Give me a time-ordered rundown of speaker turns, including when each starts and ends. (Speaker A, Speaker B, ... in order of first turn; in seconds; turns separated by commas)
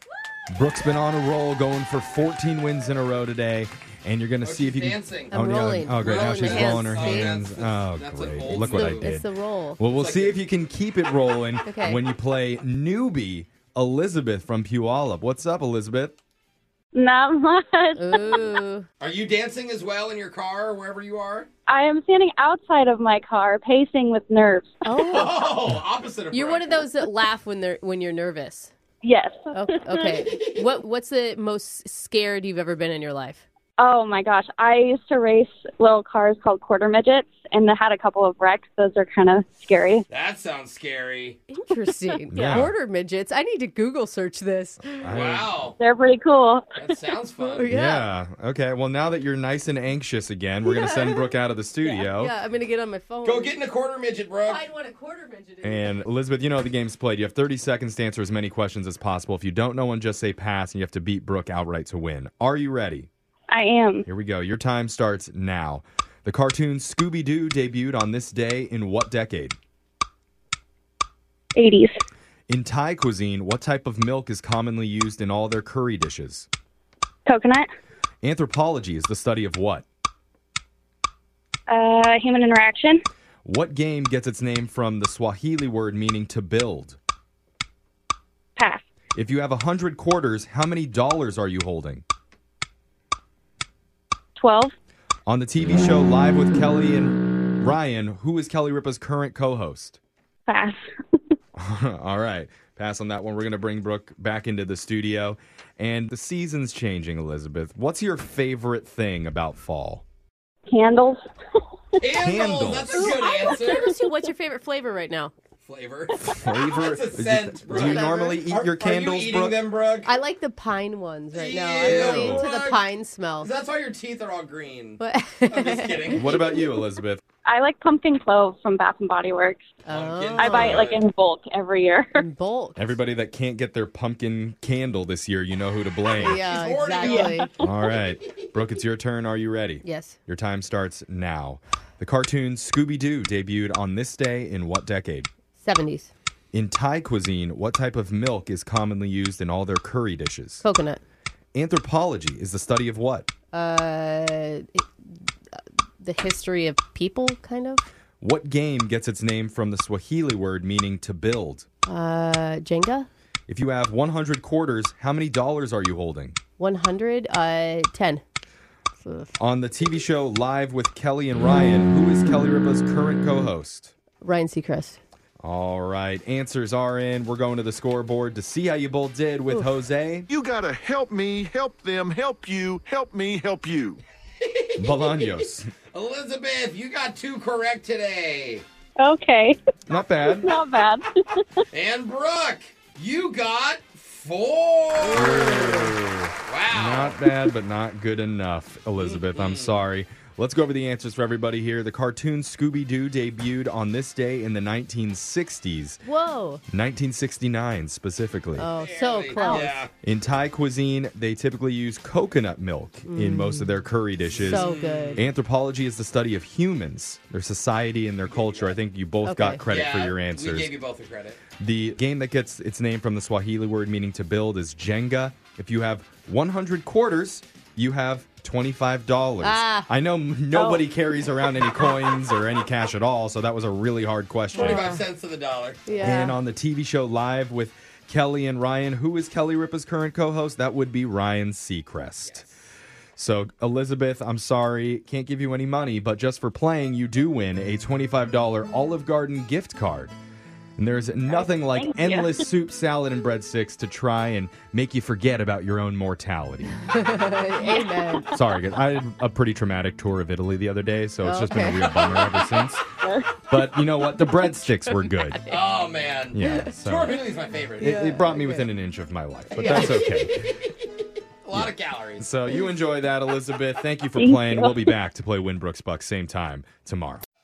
Speaker A: 0.5-16.1, Speaker B: 4.4-5.4, Speaker C: 5.3-7.3, Speaker B: 6.0-9.1, Speaker C: 8.5-9.8, Speaker B: 9.9-10.4, Speaker C: 11.6-12.0, Speaker D: 16.9-18.4, Speaker C: 18.0-18.9, Speaker B: 19.0-21.5, Speaker D: 21.7-24.8, Speaker C: 24.8-25.5, Speaker B: 25.0-26.9, Speaker C: 26.3-28.7, Speaker D: 29.0-30.1, Speaker C: 29.5-33.4, Speaker D: 33.8-40.0, Speaker B: 40.1-41.4, Speaker C: 41.5-45.2, Speaker A: 42.3-42.7, Speaker D: 42.3-42.6, Speaker A: 45.0-45.5, Speaker B: 45.1-45.8, Speaker D: 45.7-46.8, Speaker B: 46.8-47.7, Speaker C: 47.5-48.1, Speaker A: 47.7-52.3, Speaker C: 51.8-53.6, Speaker B: 53.2-54.7, Speaker C: 54.5-56.0, Speaker A: 55.6-63.1, Speaker D: 63.5-64.0, Speaker A: 64.0-69.6, Speaker D: 71.5-72.0, Speaker A: 72.5-76.5, Speaker D: 77.3-77.7, Speaker A: 78.2-79.8, Speaker D: 81.7-83.0, Speaker A: 83.4-87.0, Speaker D: 88.6-88.8, Speaker A: 89.1-92.0, Speaker D: 94.4-94.7, Speaker A: 95.3-100.0, Speaker D: 100.5-100.8, Speaker A: 101.5-110.0, Speaker D: 110.7-111.2, Speaker B: 112.0-113.9, Speaker A: 112.2-113.0, Speaker C: 112.9-115.3, Speaker D: 113.2-113.7, Speaker B: 115.6-120.1, Speaker A: 116.2-119.6, Speaker C: 117.7-118.4, Speaker C: 120.0-123.5, Speaker B: 121.3-122.8, Speaker A: 122.0-122.3, Speaker B: 123.4-126.3, Speaker C: 125.0-126.6, Speaker A: 126.1-127.2, Speaker D: 127.4-129.7, Speaker C: 129.8-130.9, Speaker B: 129.9-131.0, Speaker D: 130.4-132.2, Speaker C: 132.2-133.0, Speaker A: 132.8-136.4, Speaker C: 136.2-137.5, Speaker B: 136.2-137.5, Speaker D: 137.0-137.4, Speaker A: 137.6-145.3, Speaker C: 139.8-140.2, Speaker C: 145.6-146.1, Speaker A: 146.5-150.6, Speaker C: 150.6-151.0, Speaker A: 151.5-153.3, Speaker C: 153.5-154.9, Speaker C: 156.0-157.8, Speaker A: 158.2-161.7, Speaker C: 161.8-163.1, Speaker A: 163.5-166.4, Speaker C: 166.6-168.2, Speaker C: 169.0-169.3, Speaker A: 169.4-173.9, Speaker C: 174.2-175.0, Speaker A: 175.4-180.3, Speaker E: 180.3-184.0, Speaker B: 184.4-188.6, Speaker A: 184.8-185.7, Speaker D: 189.0-191.3, Speaker A: 189.9-190.5, Speaker B: 191.7-195.6, Speaker C: 195.0-195.9, Speaker A: 195.1-206.0, Speaker B: 196.5-197.2, Speaker B: 199.0-199.8, Speaker C: 206.0-206.6, Speaker A: 206.7-208.7, Speaker C: 208.6-209.8, Speaker B: 208.8-209.9, Speaker D: 209.4-209.7, Speaker A: 210.0-220.8, Speaker C: 213.1-213.8, Speaker C: 214.3-215.2, Speaker B: 214.4-215.2, Speaker B: 218.2-218.8, Speaker C: 219.2-219.6, Speaker B: 219.7-221.4, Speaker A: 221.6-234.9, Speaker C: 229.4-229.9, Speaker D: 230.5-230.8, Speaker C: 234.5-235.0, Speaker B: 234.5-236.1, Speaker C: 235.8-236.4, Speaker A: 236.0-242.4, Speaker A: 243.2-250.1, Speaker A: 250.8-256.8, Speaker D: 251.3-252.4, Speaker C: 256.9-258.3, Speaker A: 258.3-262.9, Speaker C: 261.2-261.9, Speaker B: 261.8-262.6, Speaker D: 263.0-263.3, Speaker A: 263.4-265.4, Speaker B: 265.5-268.0, Speaker A: 266.3-267.2, Speaker C: 267.8-268.7, Speaker A: 267.8-270.5, Speaker C: 269.5-270.1, Speaker B: 271.4-272.3, Speaker A: 271.5-277.2, Speaker D: 274.1-274.9